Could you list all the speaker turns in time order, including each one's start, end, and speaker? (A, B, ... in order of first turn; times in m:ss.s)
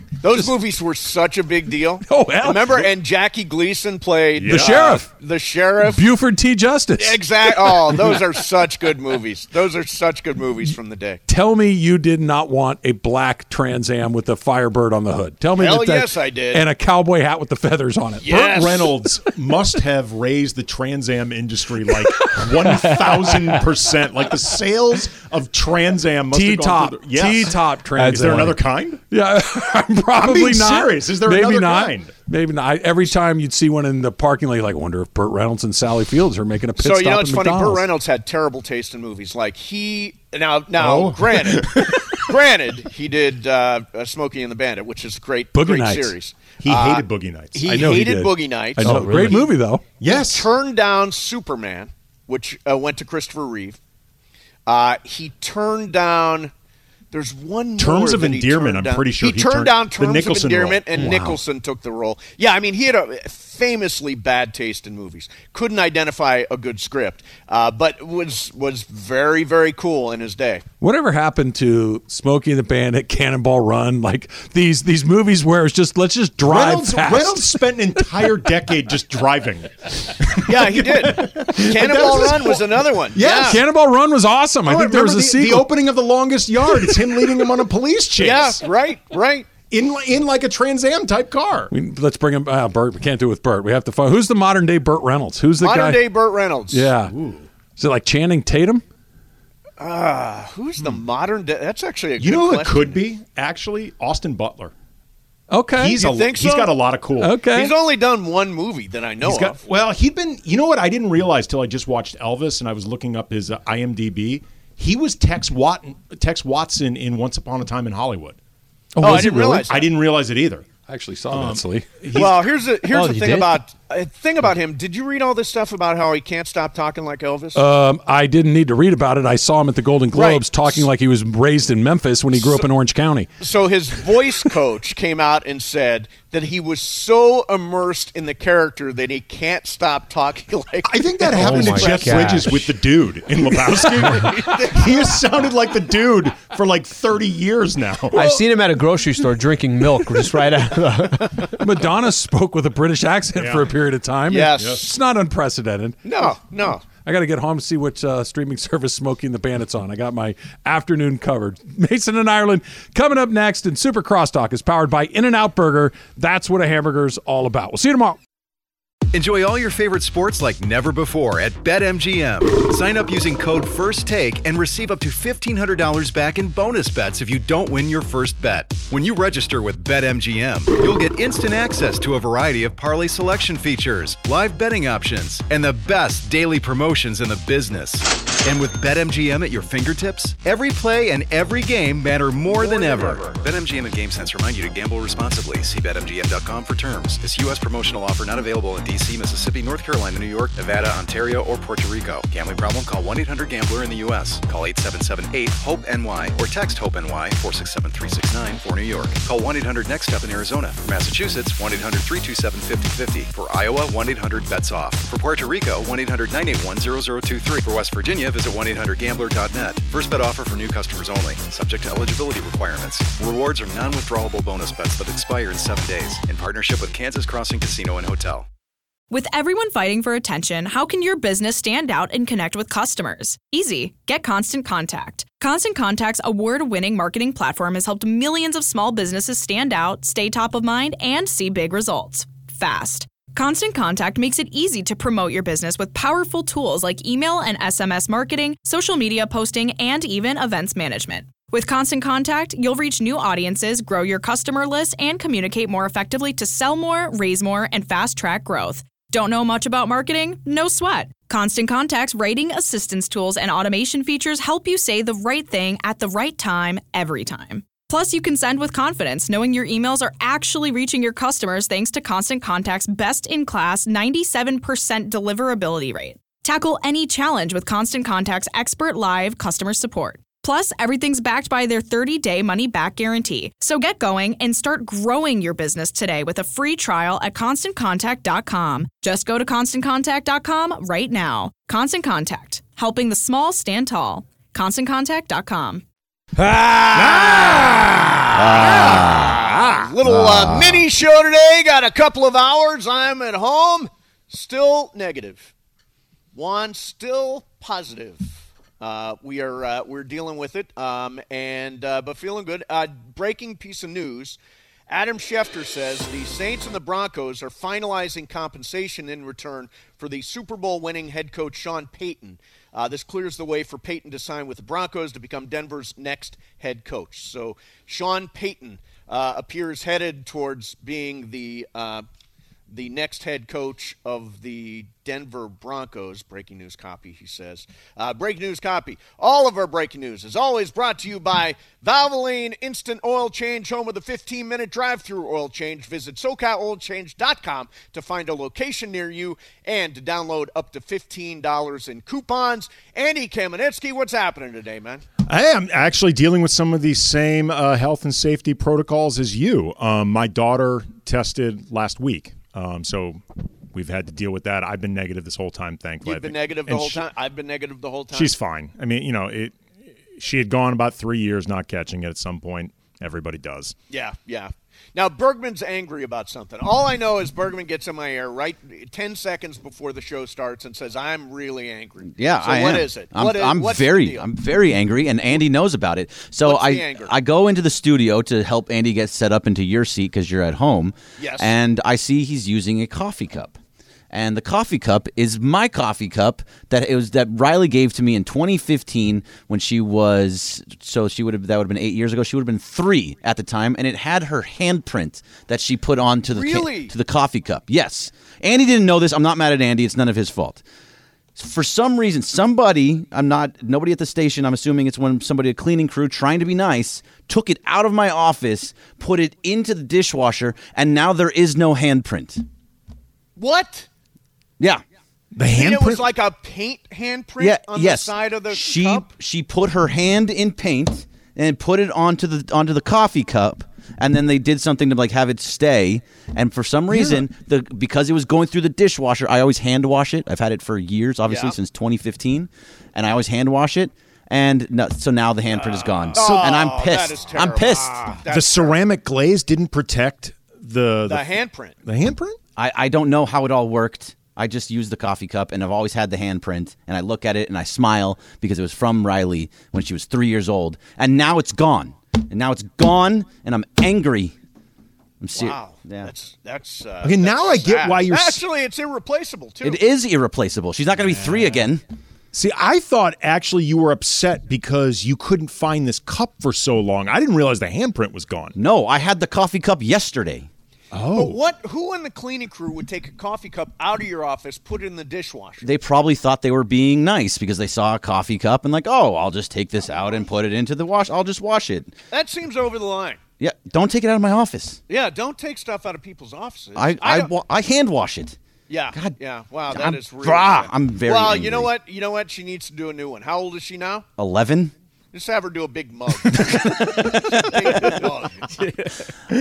0:00.2-0:06.0 A
0:02.1-0:02.8 B
0:04.4-0:04.8 C
0:04.4-0:05.1 B
0:05.8-0:08.2 B
0:07.0-0:11.2 A
0:11.3-0:18.4 B
0:15.6-0:16.6 A
0:18.2-0:18.9 A
0:18.2-0:29.0 C
0:22.2-0:23.5 B
0:26.3-0:37.9 B
0:28.0-0:28.6 D
0:30.1-0:32.1 C
0:36.8-0:48.9 A
0:40.8-0:42.0 C
0:45.5-0:46.1 B
0:46.6-0:47.6 C
0:47.6-0:49.8 B
0:48.8-0:49.5 D
0:50.0-0:50.5 C
0:50.1-0:53.8 A
0:54.7-0:56.5 A
0:57.1-1:10.6 A
0:57.8-1:01.4 C
1:10.8-1:17.4 B
1:16.4-1:23.6 C
1:20.4-1:23.6 A
1:23.4-1:25.7 B
1:24.6-1:28.6 C
1:28.2-1:29.5 A
1:29.7-1:31.7 C
1:31.7-1:36.0 B
1:35.6-1:36.9 A
1:36.7-1:37.1 B
1:37.2-1:37.4 C
1:37.8-1:38.8 B
1:39.8-1:43.0 A
1:42.2-1:44.7 C
1:45.5-1:46.0 B
1:45.8-1:47.4 C
1:46.0-1:46.8 A
1:47.2-1:47.7 B
1:47.5-1:49.6 A
1:49.2-1:58.4 C
1:59.0-1:59.7 B
1:59.0-1:59.8 A
1:59.7-2:00.7 C
2:00.9-2:01.9 B
2:01.3-2:02.4 C
2:02.1-2:07.6 A
2:02.9-2:03.6 D
2:07.5-2:13.3 B
2:10.1-2:10.9 A
2:12.3-2:12.7 A
2:13.4-2:22.5 A
2:20.8-2:28.2 C
2:21.3-2:22.7 D
2:23.6-2:25.1 A
2:28.1-2:31.4 D
2:31.6-2:36.3 B
2:33.3-2:33.7 C
2:34.3-2:34.9 A
2:36.0-2:36.8 A
2:36.9-2:48.2 B
2:49.1-3:48.5 E
3:12.5-3:13.3 A
3:49.1-4:55.8 F
4:56.4-5:05.5 A
4:56.9-4:59.8 C
4:58.3-5:00.8 G
5:06.3-5:14.4 A
5:14.9-5:32.0 A
5:32.7-5:55.0 A
5:55.2-6:07.0 C
6:06.0-6:08.3 A
6:08.1-6:13.7 C
6:13.9-6:24.3 A
6:22.1-6:33.5 G
6:26.4-6:27.1 A
6:31.2-6:31.5 A
6:34.1-6:50.6 G
6:46.3-6:46.9 A
6:51.4-7:02.4 G
7:03.4-7:03.9 A
7:05.3-7:06.0 C
7:05.6-7:09.1 A
7:07.4-7:28.0 G
7:16.9-7:17.2 C
7:21.2-7:21.6 A
7:25.4-7:28.8 A
7:26.1-7:26.5 C
7:28.3-7:31.3 C
7:31.1-7:31.7 A
7:31.8-7:32.4 C
7:32.6-7:44.3 G
7:45.2-7:46.1 G
7:45.4-7:49.8 A
7:47.0-7:48.4 C
7:49.6-7:51.8 G
7:52.3-7:58.5 C
7:58.6-8:00.5 G
8:00.9-8:01.4 C
8:01.1-8:05.6 A
8:05.6-8:11.9 G
8:12.1-8:13.2 A
8:13.4-8:14.8 G
8:14.9-8:17.3 A
8:16.8-8:18.4 G
8:18.7-8:24.1 A
8:19.7-8:21.7 G
8:24.2-8:24.7 G
8:25.1-8:28.5 A
8:26.4-8:28.0 G